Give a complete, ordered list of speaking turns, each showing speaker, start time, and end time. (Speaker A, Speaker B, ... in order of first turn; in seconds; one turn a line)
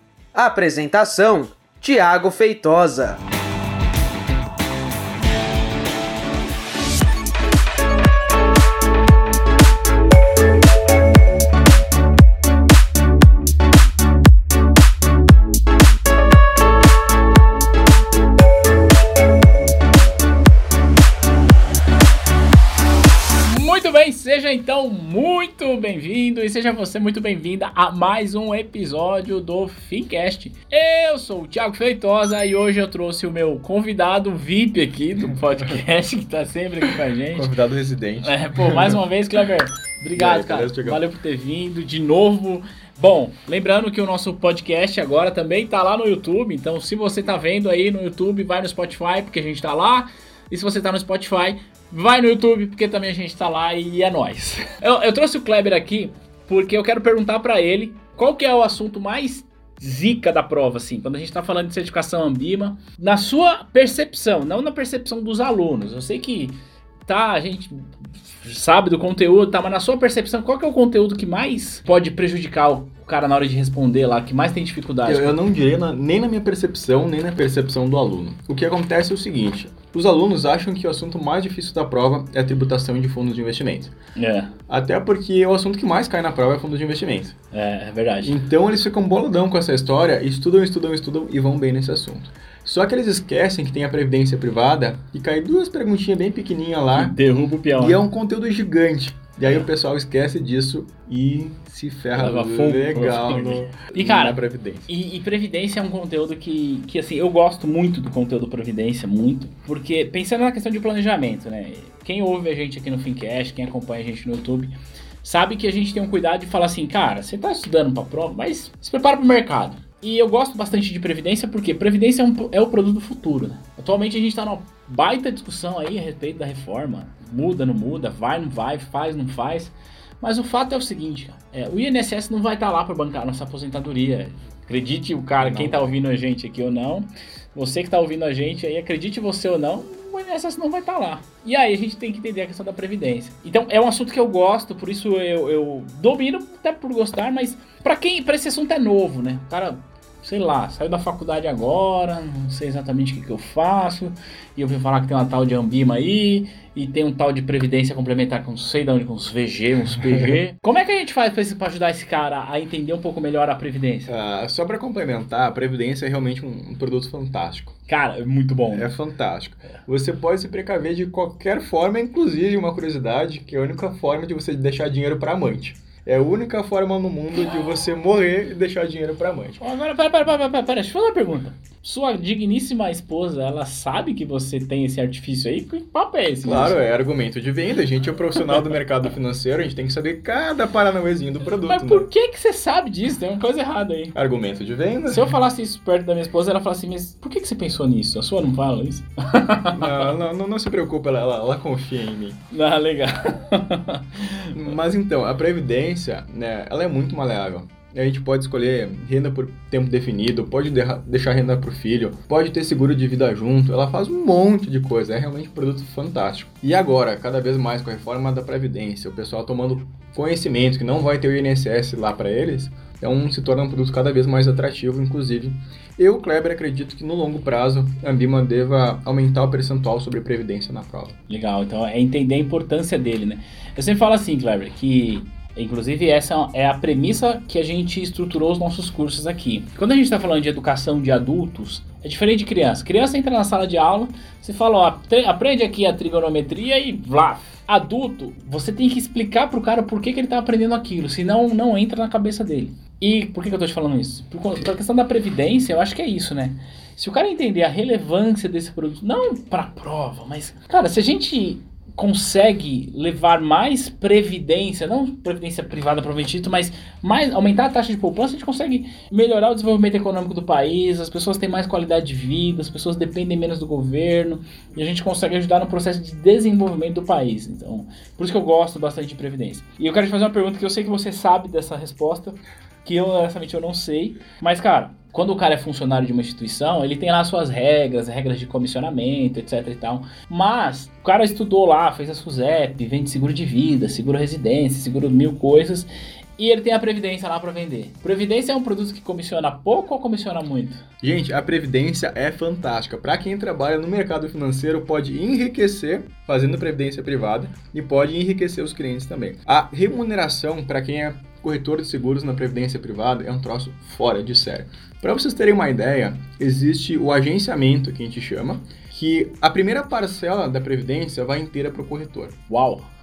Speaker A: 0.3-3.2
Speaker B: 23.4-37.5
Speaker C: 37.3-39.0
Speaker B: 38.2-75.4
Speaker C: 40.1-41.0
Speaker C: 75.0-83.9
Speaker B: 84.2-84.5
Speaker C: 84.7-87.3
Speaker B: 87.5-88.4
Speaker C: 88.2-97.2
Speaker B: 96.9-98.0
Speaker C: 97.7-104.9
Speaker B: 99.4-99.7
Speaker B: 102.2-164.1
Speaker C: 135.4-135.9
Speaker C: 164.1-167.7
Speaker B: 167.9-168.9
Speaker C: 168.7-179.6
Speaker B: 179.6-186.8
Speaker C: 186.4-192.1
Speaker B: 191.4-194.1
Speaker C: 194.1-195.4
Speaker B: 195.1-200.1
Speaker C: 199.7-202.4
Speaker B: 202.5-204.6
Speaker C: 204.5-231.1
Speaker B: 231.3-300.8
Speaker C: 301.0-322.3
Speaker B: 322.5-322.9